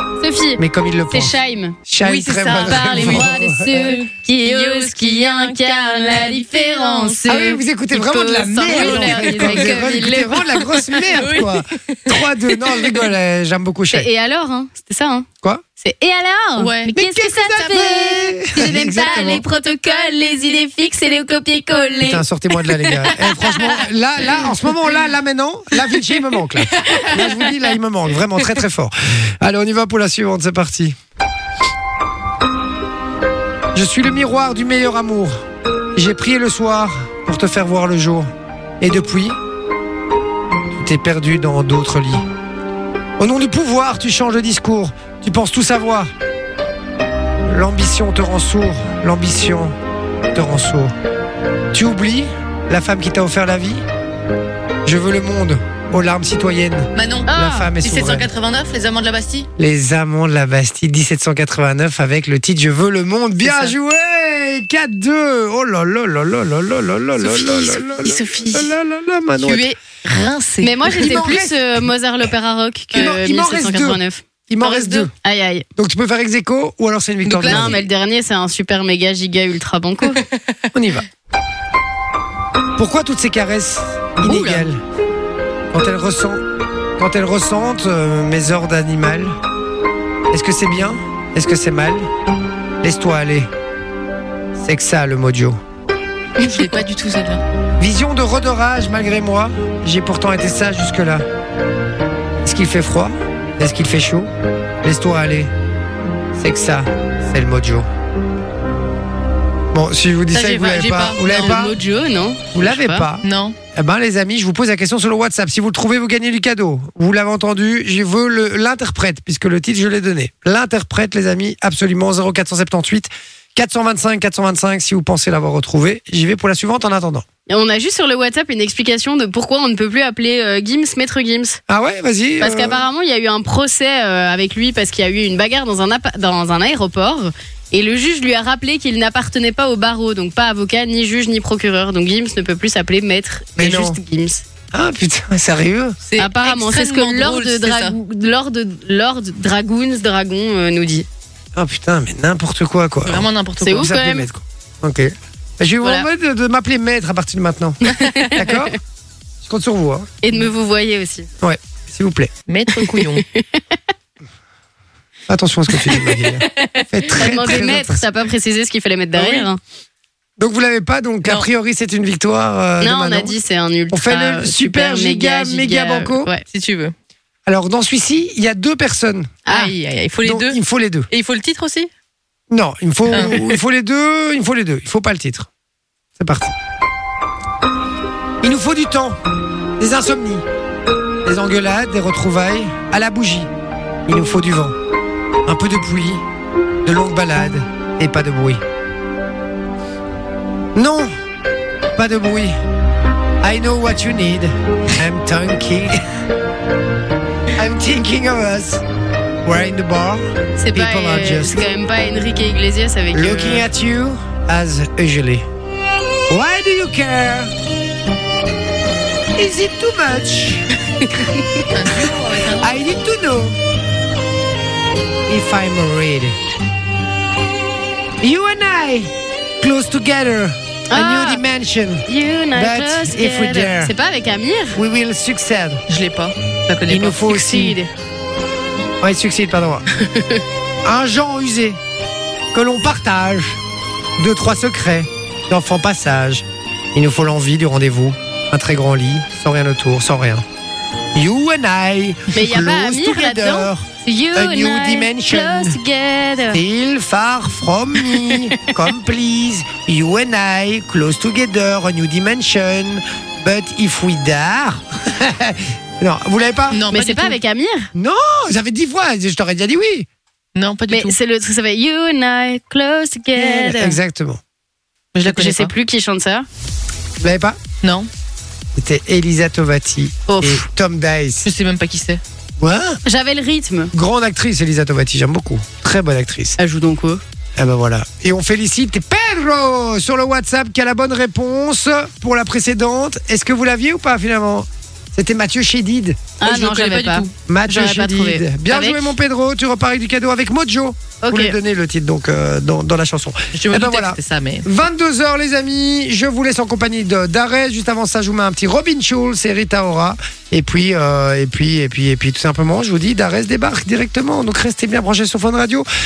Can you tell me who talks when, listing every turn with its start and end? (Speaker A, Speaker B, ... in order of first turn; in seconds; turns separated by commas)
Speaker A: 0.2-1.8, Speaker B: 0.6-1.3, Speaker B: 1.9-4.0, Speaker C: 2.0-7.4, Speaker A: 2.5-10.8, Speaker B: 7.3-14.1, Speaker C: 8.6-13.1, Speaker A: 13.9-15.3, Speaker A: 15.8-23.7, Speaker C: 16.6-16.9, Speaker B: 16.9-19.4, Speaker C: 19.0-19.3, Speaker B: 22.0-30.9, Speaker C: 26.7-27.4, Speaker B: 33.7-35.4, Speaker B: 36.0-39.4, Speaker B: 40.7-42.2, Speaker B: 43.2-46.1, Speaker B: 47.5-49.7, Speaker B: 50.3-50.9, Speaker B: 51.7-53.8, Speaker B: 54.8-58.3, Speaker C: 56.9-59.5, Speaker A: 57.3-57.7, Speaker B: 59.6-69.7, Speaker C: 63.4-63.7, Speaker C: 67.2-68.7, Speaker C: 69.4-71.4, Speaker A: 70.6-74.2, Speaker B: 70.9-71.6, Speaker B: 72.9-75.1, Speaker C: 74.6-75.1, Speaker A: 75.2-75.6, Speaker B: 75.8-77.8, Speaker C: 77.2-77.8, Speaker A: 77.4-80.2, Speaker C: 80.2-80.5, Speaker B: 80.7-81.0, Speaker B: 82.8-84.8, Speaker C: 84.2-84.6, Speaker B: 85.7-86.4, Speaker B: 87.0-89.4, Speaker B: 90.3-92.1, Speaker B: 92.8-93.5, Speaker B: 94.5-95.6, Speaker A: 96.4-96.7, Speaker C: 96.4-97.4, Speaker B: 97.8-101.2, Speaker B: 102.4-104.3, Speaker B: 104.8-105.5, Speaker B: 106.3-107.9, Speaker B: 109.7-111.8, Speaker C: 110.3-111.6, Speaker A: 111.2-113.1, Speaker B: 112.5-127.2, Speaker C: 113.2-113.6, Speaker A: 127.5-131.6, Speaker B: 131.7-132.8, Speaker A: 132.4-144.4, Speaker B: 143.6-144.0, Speaker B: 144.7-146.0, Speaker C: 146.0-148.0, Speaker A: 146.2-151.1, Speaker B: 151.6-158.8, Speaker C: 153.0-153.9, Speaker A: 153.6-154.3, Speaker A: 155.8-156.1, Speaker A: 157.8-158.7, Speaker B: 159.4-160.1, Speaker A: 160.2-161.3, Speaker B: 161.4-162.3, Speaker C: 162.5-163.2, Speaker A: 163.0-163.6, Speaker B: 165.3-168.0, Speaker C: 166.1-167.5, Speaker A: 167.2-169.6, Speaker C: 169.2-169.4, Speaker B: 170.4-173.3, Speaker A: 172.8-176.4, Speaker B: 173.9-176.3, Speaker C: 176.4-176.9, Speaker B: 177.4-179.4, Speaker A: 179.5-179.7, Speaker C: 179.5-181.9, Speaker B: 180.2-181.1, Speaker B: 182.5-185.5, Speaker C: 183.1-183.6, Speaker B: 186.2-186.5, Speaker B: 188.4-189.2, Speaker B: 189.8-190.4, Speaker B: 191.2-193.5, Speaker B: 194.1-194.7, Speaker B: 195.4-196.2, Speaker B: 196.8-198.6, Speaker B: 200.7-201.1, Speaker B: 201.9-202.6, Speaker B: 203.4-206.0, Speaker B: 207.6-208.8, Speaker B: 209.4-211.7, Speaker A: 210.6-213.6, Speaker B: 213.1-215.4, Speaker B: 216.3-217.5, Speaker B: 219.3-220.7, Speaker C: 221.7-222.8, Speaker B: 222.6-223.6, Speaker B: 225.3-226.4, Speaker B: 228.2-233.9, Speaker A: 230.9-231.4, Speaker A: 232.1-234.8, Speaker B: 234.7-235.8, Speaker C: 235.9-237.4, Speaker B: 236.9-237.8, Speaker A: 237.3-237.9, Speaker B: 239.0-239.8, Speaker A: 240.0-240.4, Speaker B: 240.8-241.8, Speaker B: 242.5-243.6, Speaker B: 244.2-250.4, Speaker B: 251.1-255.8, Speaker A: 252.3-256.6, Speaker B: 256.5-266.8, Speaker C: 266.7-267.4, Speaker A: 266.9-267.9, Speaker B: 267.9-270.1, Speaker C: 270.5-271.2, Speaker A: 270.9-274.0, Speaker B: 273.4-274.4, Speaker C: 275.1-275.7, Speaker A: 275.2-276.4, Speaker B: 277.2-277.6, Speaker C: 277.8-278.1, Speaker B: 278.7-281.5, Speaker A: 280.3-280.6, Speaker C: 281.4-282.2, Speaker B: 282.6-283.0, Speaker A: 283.1-283.9, Speaker B: 283.9-286.6, Speaker A: 286.6-287.2, Speaker B: 287.6-296.2, Speaker A: 296.4-299.0, Speaker C: 296.4-297.3, Speaker B: 297.4-315.9, Speaker A: 301.2-301.5, Speaker C: 303.5-304.6